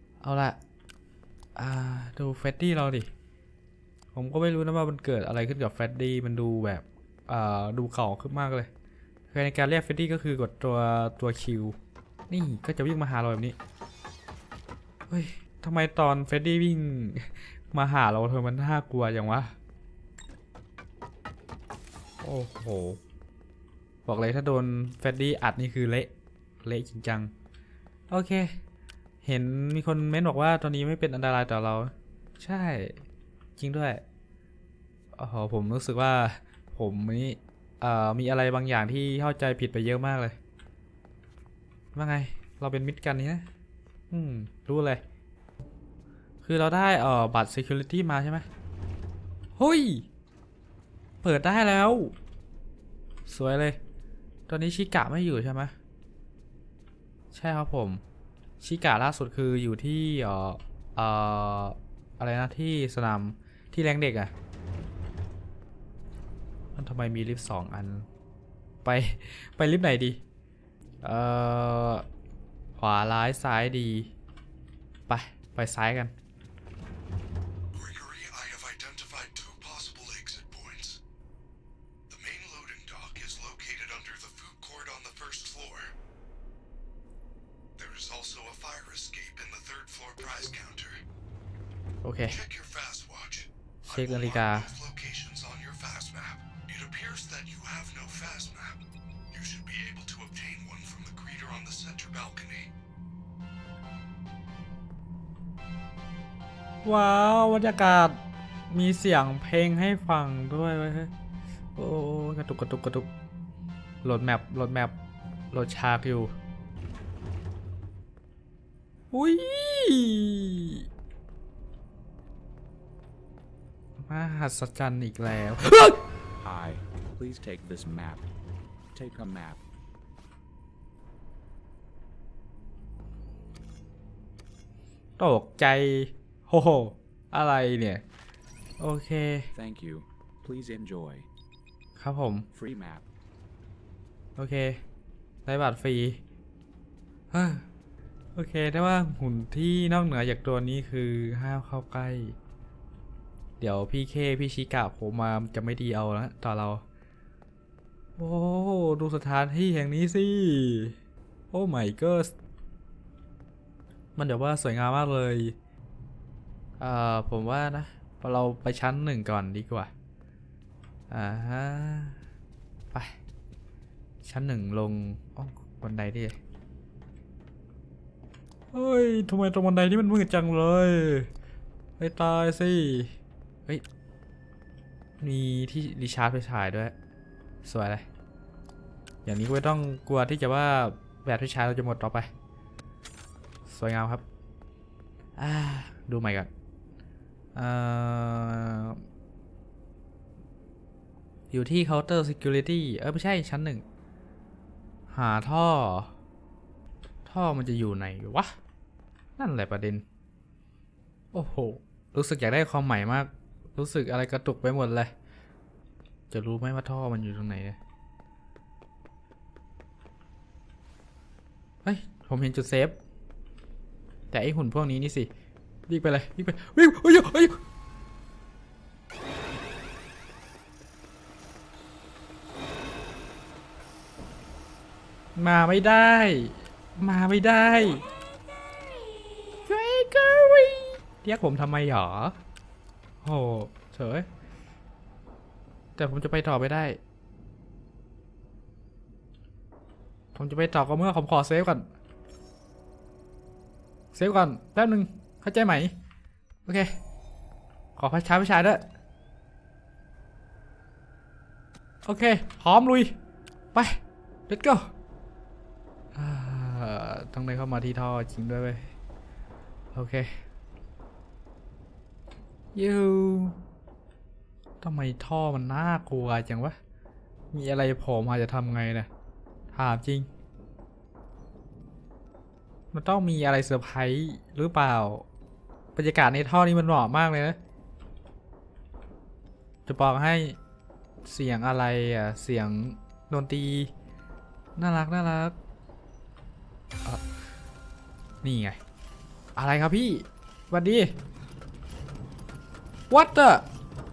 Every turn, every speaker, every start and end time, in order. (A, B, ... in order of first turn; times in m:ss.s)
0:00.2-0:00.6 A
0:01.6-0:03.1 A
0:04.1-0:08.7 A
0:09.3-0:11.8 A
0:12.3-0:13.6 A
0:15.1-0:19.5 A
0:22.2-0:23.0 A
0:24.0-0:26.1 A
0:26.6-0:27.3 A
0:28.1-0:28.5 A
0:29.2-0:33.0 A
0:33.6-0:34.0 A
0:35.2-0:40.4 A
0:41.9-0:43.5 A
0:44.1-0:45.0 A
0:46.4-0:48.4 A
0:49.6-0:50.1 A
0:51.2-0:52.2 A
0:53.3-0:53.8 A
0:54.5-0:55.7 A
0:57.3-0:58.0 A
0:58.6-1:04.3 A
1:06.8-1:08.1 A
1:08.8-1:10.2 A
1:11.0-1:12.0 A
1:12.8-1:14.1 A
1:15.1-1:16.1 A
1:17.7-1:21.0 B
1:22.1-1:25.9 B
1:27.8-1:31.0 B
1:32.0-1:32.4 A
1:32.2-1:38.8 B
1:33.8-1:34.7 A
1:39.3-1:42.7 B
1:46.8-1:51.1 A
1:51.8-1:53.1 A
1:54.0-1:54.9 A
1:55.5-1:56.3 A
1:59.1-2:00.8 A
2:04.0-2:06.0 A
2:06.4-2:08.2 C
2:08.9-2:09.6 C
2:15.2-2:18.0 A
2:18.8-2:19.5 A
2:19.6-2:21.3 C
2:22.0-2:22.5 A
2:22.5-2:23.0 C
2:24.4-2:24.8 A
2:25.5-2:26.2 A
2:27.3-2:27.6 A
2:28.3-2:32.3 A
2:33.6-2:36.8 A
2:38.2-2:41.0 A
2:41.5-2:42.3 A
2:44.2-2:45.6 A
2:46.8-2:49.9 A
2:51.1-2:52.2 A
2:54.2-2:56.4 A
2:58.7-3:01.3 A
3:02.0-3:03.1 A
3:05.2-3:06.9 A
3:07.6-3:08.0 A
3:09.2-3:12.3 A
3:13.7-3:14.2 A
3:15.4-3:16.5 A
3:17.6-3:19.0 A
3:21.5-3:23.8 A
3:25.1-3:26.1 A
3:27.2-3:28.5 A
3:29.4-3:30.0 A
3:31.3-3:35.1 A
3:36.3-3:37.8 A
3:41.8-3:43.0 A
3:44.3-3:45.3 A
3:45.9-3:47.6 A
3:55.4-3:58.1 A
3:59.6-4:02.4 A
4:03.2-4:04.3 A
4:06.0-4:07.0 A
4:10.3-4:11.9 A
4:14.1-4:15.9 A
4:16.6-4:16.9 A
4:18.0-4:18.8 A
4:22.0-4:23.1 A
4:23.7-4:24.9 A
4:26.1-4:28.9 A
4:29.9-4:30.3 A
4:32.7-4:33.6 A
4:34.8-4:36.8 A
4:37.5-4:39.1 A
4:39.7-4:40.3 A
4:42.9-4:45.2 A
4:45.9-4:47.6 A
4:49.8-4:50.6 A
4:51.2-4:53.9 A
4:54.8-4:55.6 A
4:58.4-4:58.8 A
4:59.6-5:01.1 A
5:03.1-5:03.6 A